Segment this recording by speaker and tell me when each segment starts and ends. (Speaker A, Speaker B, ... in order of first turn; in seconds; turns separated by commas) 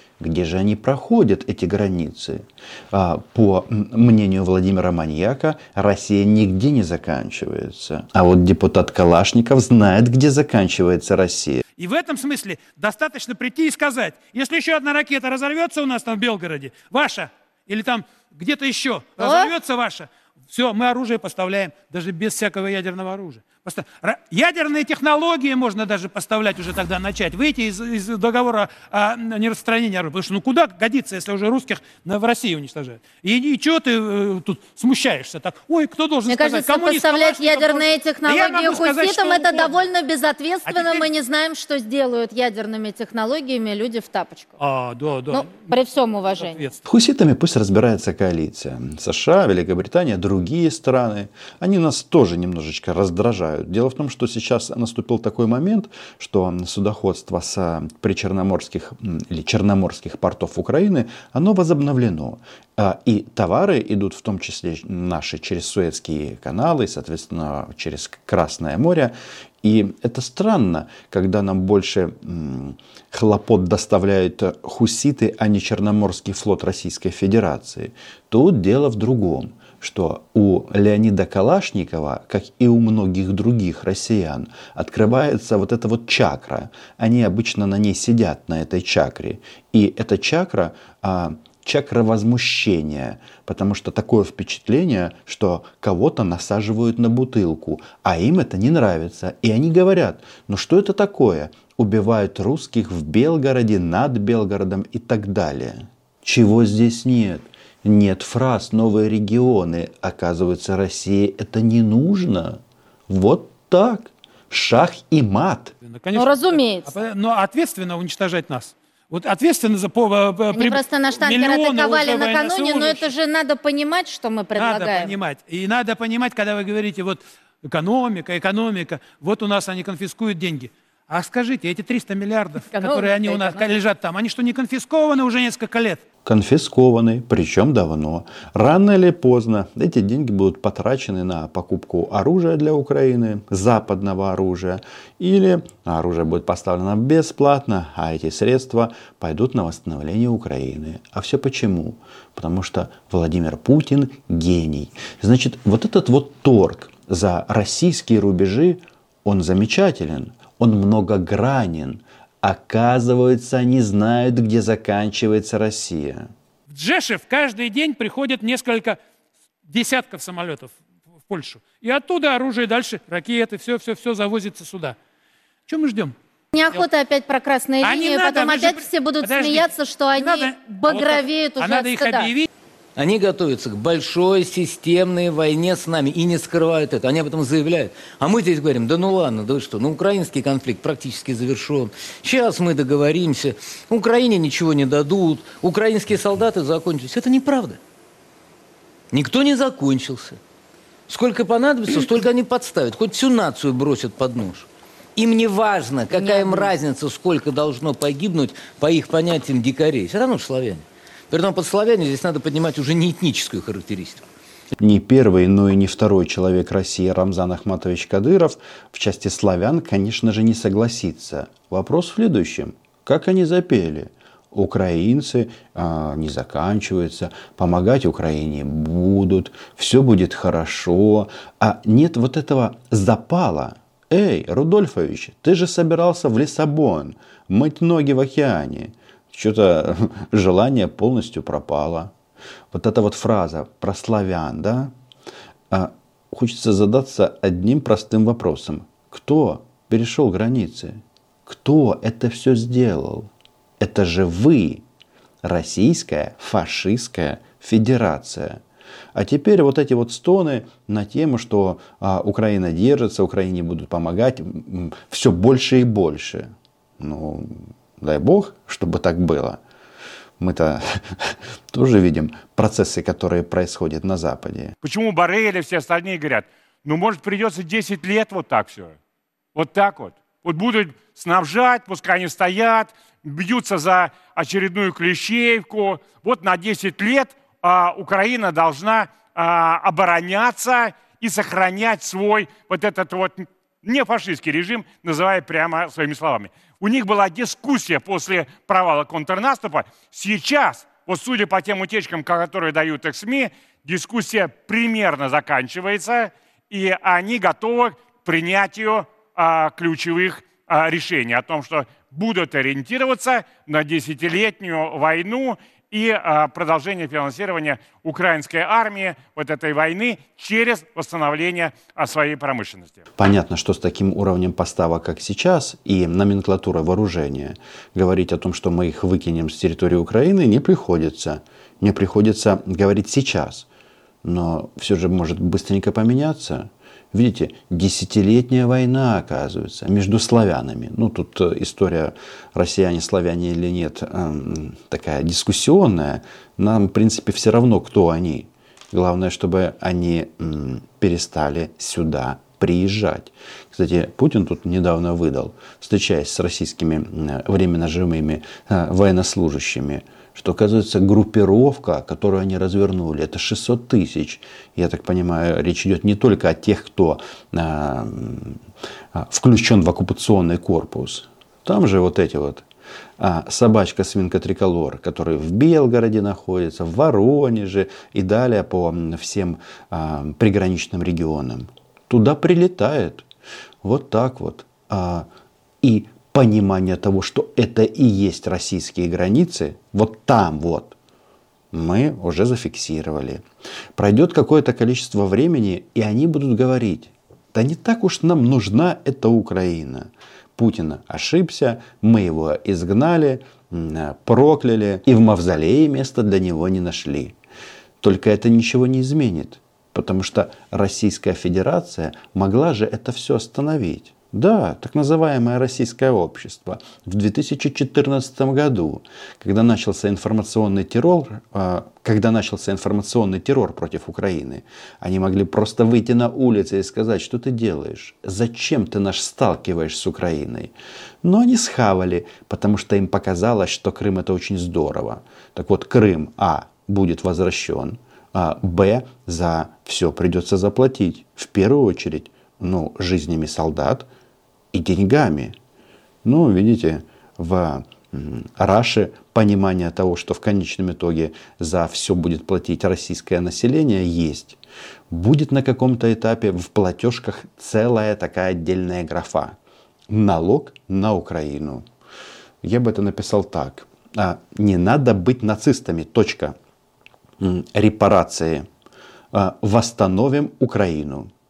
Speaker A: 0.2-11.6, Speaker B: 11.8-39.8, Speaker C: 19.2-19.5, Speaker C: 36.3-44.6, Speaker B: 40.6-41.0, Speaker B: 44.6-45.7, Speaker C: 45.3-46.7, Speaker B: 46.4-46.8, Speaker A: 46.8-115.7, Speaker B: 115.8-123.1, Speaker C: 116.1-116.9, Speaker C: 120.5-125.1, Speaker B: 124.5-136.0, Speaker C: 132.7-133.6, Speaker A: 136.2-166.3, Speaker B: 166.7-169.0, Speaker B: 169.7-170.7, Speaker B: 171.3-175.0, Speaker B: 175.7-176.1, Speaker C: 176.5-182.3, Speaker B: 177.8-182.5, Speaker D: 182.9-197.8, Speaker D: 199.1-200.4, Speaker D: 201.1-214.2, Speaker A: 214.8-242.1, Speaker A: 242.7-244.9, Speaker A: 245.7-254.8, Speaker A: 255.4-258.6, Speaker A: 259.1-269.6, Speaker A: 270.4-274.7, Speaker E: 274.8-279.0, Speaker E: 279.5-323.0, Speaker A: 323.2-333.7, Speaker A: 334.2-368.6, Speaker A: 369.1-372.6, Speaker A: 373.2-383.2, Speaker A: 383.8-385.3, Speaker A: 385.8-390.9, Speaker A: 391.7-393.4, Speaker A: 393.9-407.4, Speaker A: 408.0-430.7, Speaker A: 431.2-444.1, Speaker A: 444.7-445.6, Speaker A: 446.2-454.6, Speaker A: 455.1-459.5, Speaker A: 460.1-461.8, Speaker A: 462.6-466.6, Speaker A: 467.4-468.7, Speaker A: 469.3-471.3